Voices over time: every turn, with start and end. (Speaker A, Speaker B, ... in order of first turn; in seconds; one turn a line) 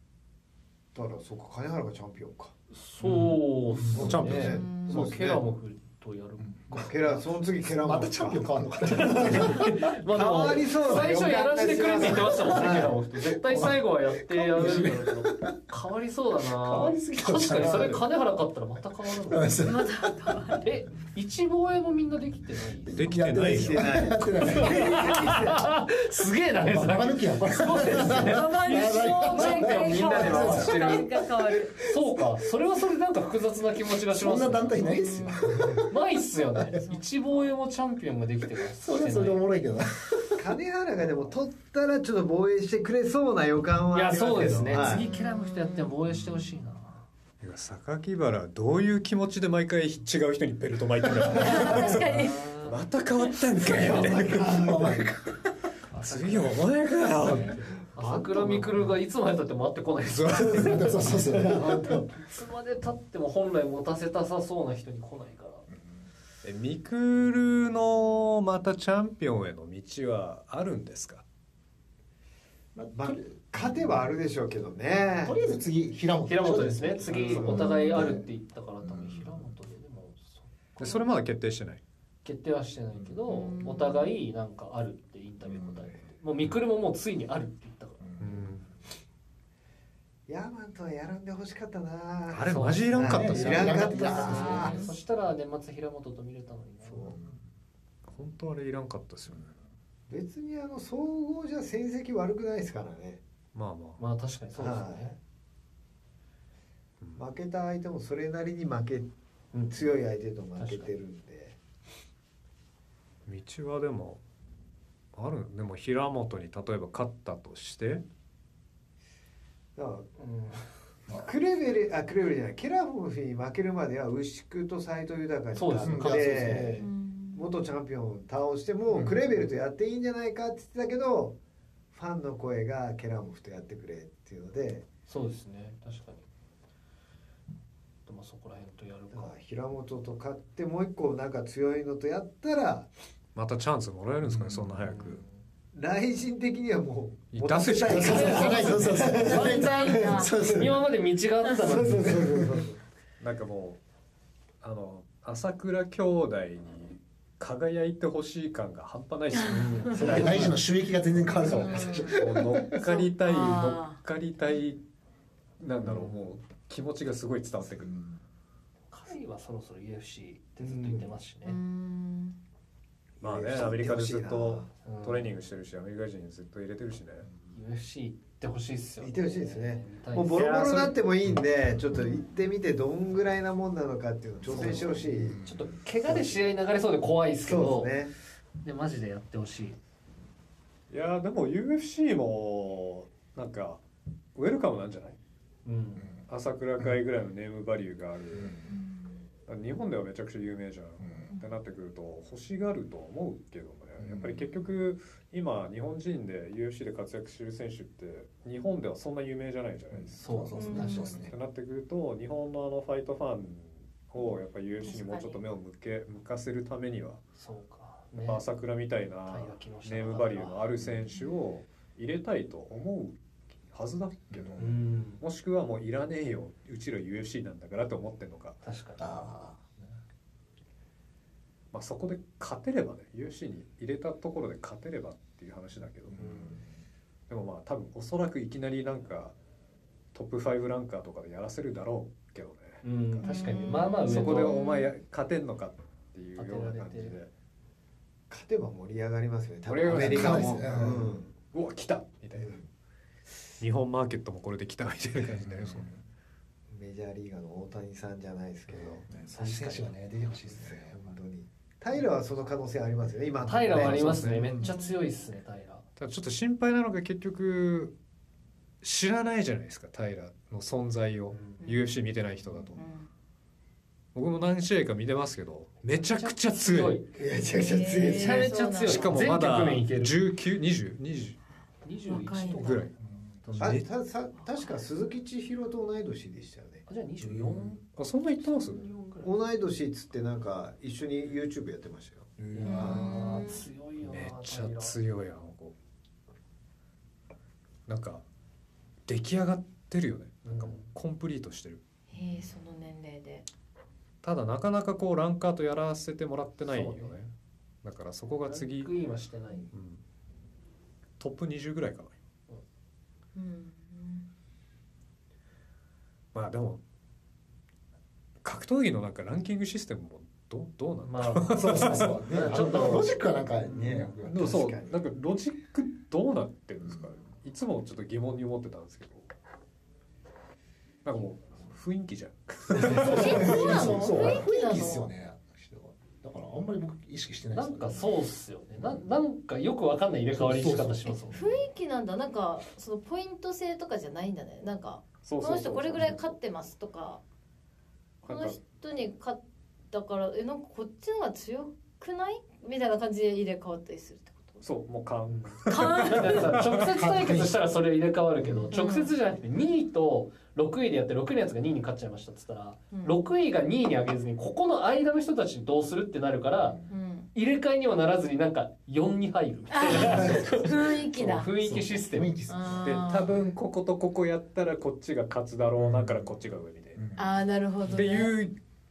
Speaker A: 0.9-2.5
Speaker B: 2.7-7.3
Speaker C: 3.0-4.5
Speaker A: 3.8-5.5
Speaker D: 4.0-4.7
Speaker E: 4.5-5.1
Speaker C: 6.5-6.9
Speaker A: 6.7-13.0
Speaker C: 7.6-10.0
Speaker B: 9.0-19.6
Speaker C: 12.2-15.7
Speaker C: 16.5-18.1
Speaker C: 19.2-20.1
Speaker E: 19.6-20.6
Speaker B: 20.6-23.1
Speaker C: 22.9-25.2
Speaker D: 22.9-24.1
Speaker A: 23.1-25.8
Speaker B: 24.4-31.1
Speaker C: 26.6-32.2
Speaker E: 27.9-31.8
Speaker B: 31.8-39.4
Speaker C: 34.1-35.9
Speaker E: 34.8-35.8
Speaker E: 36.7-37.5
Speaker C: 38.6-40.5
Speaker A: 40.4-45.1
Speaker B: 43.9-47.0
Speaker C: 44.4-44.9
Speaker E: 44.9-45.9
Speaker D: 47.4-54.6
Speaker C: 51.3-51.6
Speaker E: 51.3-52.5
Speaker B: 51.6-52.8
Speaker A: 53.7-55.2
Speaker C: 54.0-55.4
Speaker D: 55.9-57.6
Speaker A: 56.1-56.6
Speaker A: 57.2-58.8
Speaker B: 57.3-65.7
Speaker D: 60.0-60.9
Speaker C: 60.5-62.1
Speaker A: 61.3-62.1
Speaker C: 65.7-66.0
Speaker D: 66.4-71.2
Speaker C: 72.8-74.1
Speaker A: 72.9-75.5
Speaker C: 75.2-78.3
Speaker B: 76.3-81.0
Speaker A: 77.0-77.8
Speaker E: 77.5-78.1
Speaker C: 78.8-79.6
Speaker D: 80.8-81.8
Speaker B: 82.2-88.0
Speaker E: 83.3-84.2
Speaker C: 85.5-86.0
Speaker C: 88.0-88.5
Speaker D: 88.2-88.7
Speaker A: 90.3-94.8
Speaker D: 92.3-93.9
Speaker B: 92.5-97.2
Speaker C: 93.0-94.9
Speaker C: 96.9-97.4
Speaker D: 98.1-99.5
Speaker A: 100.1-103.2
Speaker D: 103.5-104.0
Speaker B: 104.0-105.1
Speaker A: 104.5-105.2
Speaker A: 107.2-109.1
Speaker B: 109.5-109.9
Speaker A: 109.7-111.6
Speaker B: 110.6-110.9
Speaker D: 113.3-114.2
Speaker D: 115.1-118.0
Speaker A: 119.8-120.1
Speaker B: 120.2-120.7
Speaker A: 121.1-131.4
Speaker B: 125.5-126.9
Speaker C: 125.8-126.7
Speaker E: 126.8-127.5
Speaker C: 128.9-129.2
Speaker A: 131.9-134.9
Speaker B: 135.1-136.3
Speaker B: 138.1-139.3
Speaker A: 139.1-142.9
Speaker D: 143.3-145.2
Speaker C: 144.3-144.9
Speaker B: 144.9-145.2
Speaker A: 145.7-150.8
Speaker D: 147.3-148.6
Speaker C: 147.9-150.8
Speaker E: 148.0-150.3
Speaker B: 149.3-149.8
Speaker B: 150.5-152.4
Speaker A: 151.6-152.8
Speaker C: 151.8-152.6
Speaker D: 153.2-153.8
Speaker D: 154.6-160.6
Speaker E: 159.3-159.9
Speaker B: 159.4-160.6
Speaker C: 159.9-162.8
Speaker E: 161.5-162.2
Speaker D: 161.8-164.8
Speaker E: 162.7-164.0
Speaker D: 165.6-167.9
Speaker C: 167.8-168.2
Speaker B: 168.9-171.6
Speaker A: 170.6-171.1
Speaker E: 171.4-172.4
Speaker D: 173.2-177.3
Speaker A: 173.2-174.7
Speaker B: 174.8-175.3
Speaker B: 177.5-180.8
Speaker A: 179.0-185.4
Speaker D: 180.3-181.0
Speaker B: 184.5-188.0
Speaker C: 185.2-185.8
Speaker A: 186.1-186.5
Speaker A: 187.4-188.1
Speaker B: 188.6-189.8
Speaker D: 190.9-193.8
Speaker D: 194.3-195.2
Speaker B: 195.7-196.1
Speaker D: 196.3-198.6
Speaker C: 198.3-198.7
Speaker E: 198.7-199.1
Speaker D: 199.5-217.2
Speaker C: 201.0-201.3
Speaker C: 204.0-204.4
Speaker C: 209.9-211.3
Speaker B: 210.2-211.2
Speaker E: 210.6-211.3
Speaker E: 214.8-215.4
Speaker B: 217.4-218.4
Speaker D: 218.2-228.6
Speaker B: 219.3-220.7
Speaker C: 224.3-224.7
Speaker B: 224.6-225.2
Speaker B: 228.6-229.3
Speaker C: 229.0-229.9
Speaker D: 231.7-236.2
Speaker C: 236.1-236.8
Speaker B: 236.2-236.6
Speaker D: 237.3-239.3
Speaker D: 240.1-243.3
Speaker B: 242.8-244.7
Speaker E: 243.2-244.9
Speaker D: 243.8-247.3
Speaker B: 246.4-247.2
Speaker A: 248.3-251.4
Speaker D: 249.7-250.8
Speaker C: 249.9-251.2
Speaker D: 251.5-252.6
Speaker A: 252.4-252.7
Speaker D: 253.6-255.9
Speaker C: 255.3-256.0
Speaker A: 256.7-264.3
Speaker C: 259.1-261.2
Speaker B: 263.5-265.9
Speaker D: 263.7-264.6
Speaker C: 264.5-264.7
Speaker E: 264.6-265.0
Speaker D: 266.0-267.9
Speaker D: 268.8-272.9
Speaker B: 271.3-271.7
Speaker E: 272.8-273.1
Speaker D: 274.1-277.0
Speaker B: 276.0-277.1
Speaker A: 277.1-278.9
Speaker E: 277.3-279.1
Speaker B: 277.9-280.2
Speaker D: 278.8-281.4
Speaker B: 281.8-282.9
Speaker E: 282.1-282.8
Speaker D: 282.5-282.9
Speaker C: 283.0-283.8
Speaker D: 283.5-283.9
Speaker A: 283.6-286.9
Speaker B: 286.9-287.8
Speaker C: 287.2-287.8
Speaker D: 288.0-288.9
Speaker B: 288.4-289.4
Speaker A: 289.2-293.4
Speaker C: 292.4-293.1
Speaker B: 292.5-294.9
Speaker E: 292.6-293.7
Speaker D: 294.0-295.7
Speaker D: 297.9-298.2
Speaker D: 299.1-301.8
Speaker B: 300.4-300.9
Speaker E: 302.1-303.5
Speaker D: 304.2-308.9
Speaker B: 306.6-307.2
Speaker B: 308.5-309.7
Speaker D: 309.7-310.0
Speaker D: 311.2-312.2
Speaker E: 313.4-314.3
Speaker D: 316.3-316.8
Speaker D: 318.4-323.1
Speaker B: 321.0-323.1
Speaker C: 321.5-324.8
Speaker D: 323.8-329.3
Speaker A: 324.3-324.9
Speaker D: 331.0-334.0
Speaker C: 332.7-339.0
Speaker B: 332.8-334.2
Speaker E: 333.0-335.1
Speaker B: 337.5-341.5
Speaker C: 340.3-341.4
Speaker E: 341.3-347.2
Speaker D: 345.2-346.3
Speaker D: 348.2-348.6
Speaker E: 348.3-349.4
Speaker E: 349.9-354.6
Speaker D: 354.6-356.9
Speaker B: 355.3-366.8
Speaker E: 355.7-356.5
Speaker C: 356.9-357.6
Speaker E: 358.7-359.1
Speaker E: 362.9-363.2
Speaker E: 366.9-367.3
Speaker B: 367.3-372.4
Speaker E: 369.7-371.6
Speaker C: 369.9-370.7
Speaker C: 371.6-373.1
Speaker E: 372.5-373.5
Speaker D: 372.8-377.1
Speaker C: 375.8-376.3
Speaker C: 377.0-377.4
Speaker E: 377.2-378.4
Speaker D: 377.9-378.6